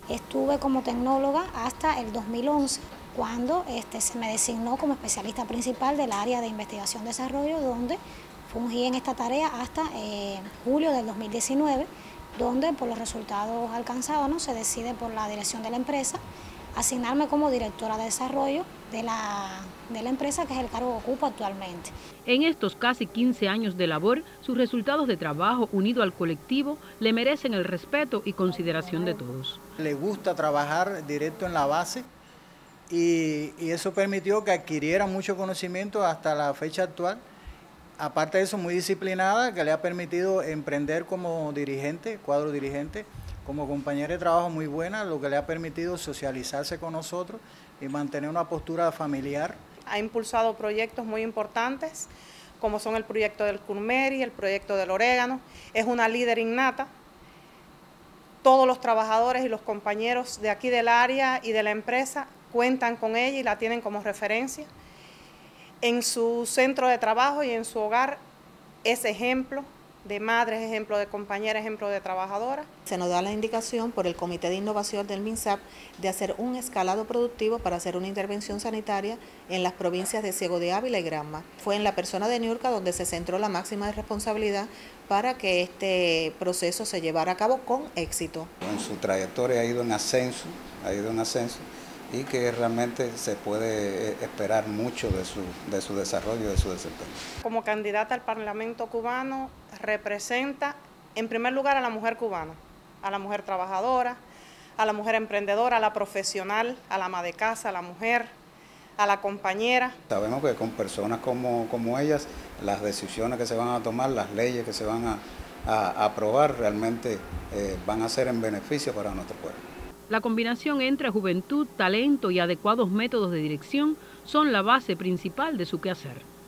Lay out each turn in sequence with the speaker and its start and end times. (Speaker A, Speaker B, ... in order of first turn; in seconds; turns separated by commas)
Speaker A: 0.1-16.2, Speaker A: 16.8-21.9, Speaker B: 22.2-29.6, Speaker C: 29.8-32.1, Speaker C: 32.9-37.2, Speaker C: 38.0-49.6, Speaker D: 49.9-56.9, Speaker D: 58.4-64.7, Speaker D: 65.8-68.2, Speaker D: 68.8-72.7, Speaker E: 72.8-88.5, Speaker F: 88.6-97.2, Speaker D: 97.4-104.2, Speaker D: 104.8-108.3, Speaker D: 109.0-110.0, Speaker F: 110.1-119.6, Speaker B: 120.1-126.2